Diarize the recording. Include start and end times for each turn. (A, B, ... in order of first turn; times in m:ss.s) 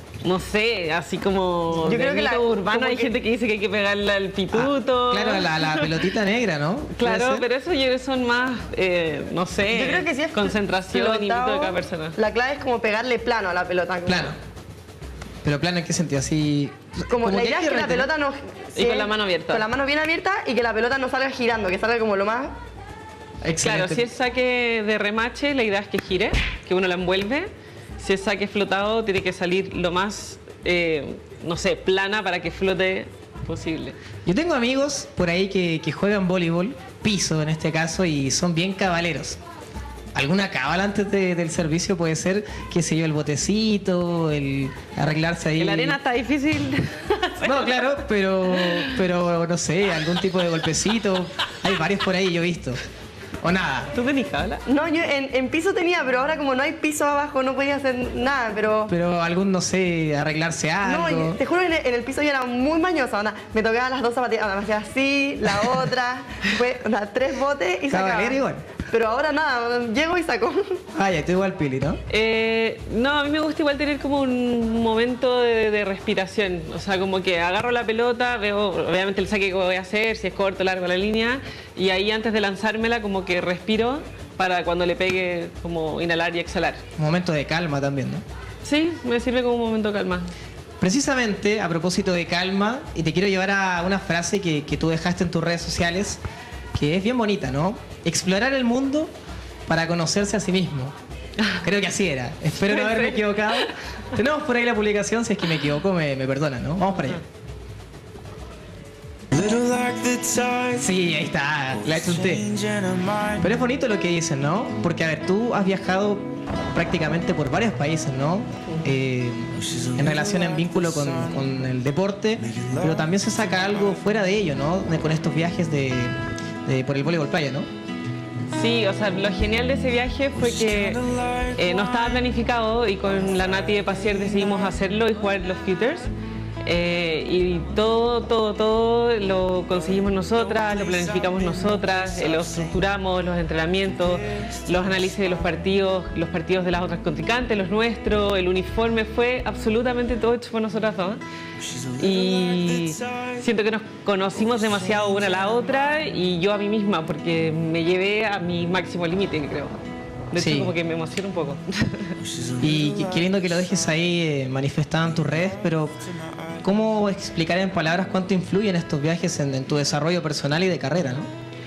0:00.2-0:06.0 A
0:01.8-0:03.2 B
0:04.5-0:07.4 C
0:07.0-0:12.2 A
0:09.7-0:14.4 B
0:14.1-0:14.4 C
0:15.4-0:18.1 C
0:17.1-0:22.6 B
0:18.8-0:19.6 A
0:23.4-0:24.0 C
0:23.6-0:34.0 A
0:34.2-0:39.4 C
0:40.2-0:46.0 C
0:45.6-0:47.9 A
0:47.4-0:52.8 C
0:48.5-0:49.0 A
0:53.4-0:53.9 C
0:53.9-0:54.6 A
0:54.7-0:58.9 B
0:58.9-1:01.4 C
1:00.8-1:10.8 B
1:07.9-1:08.7 C
1:10.9-1:12.0 C
1:12.1-1:26.8 A
1:27.0-1:28.2 C
1:28.6-1:30.3 A
1:30.8-1:36.2 C
1:36.7-1:39.1 C
1:39.7-1:41.0 C
1:41.6-1:47.2 C
1:42.6-1:43.7 A
1:49.3-1:49.9 C
1:50.6-1:52.7 C
1:53.4-2:07.7 C
2:08.5-2:16.1 A
2:16.6-2:31.2 A
2:32.0-2:39.8 A
2:40.3-2:42.2 A
2:40.4-2:40.7 C
2:42.6-2:46.0 C
2:46.6-2:51.3 C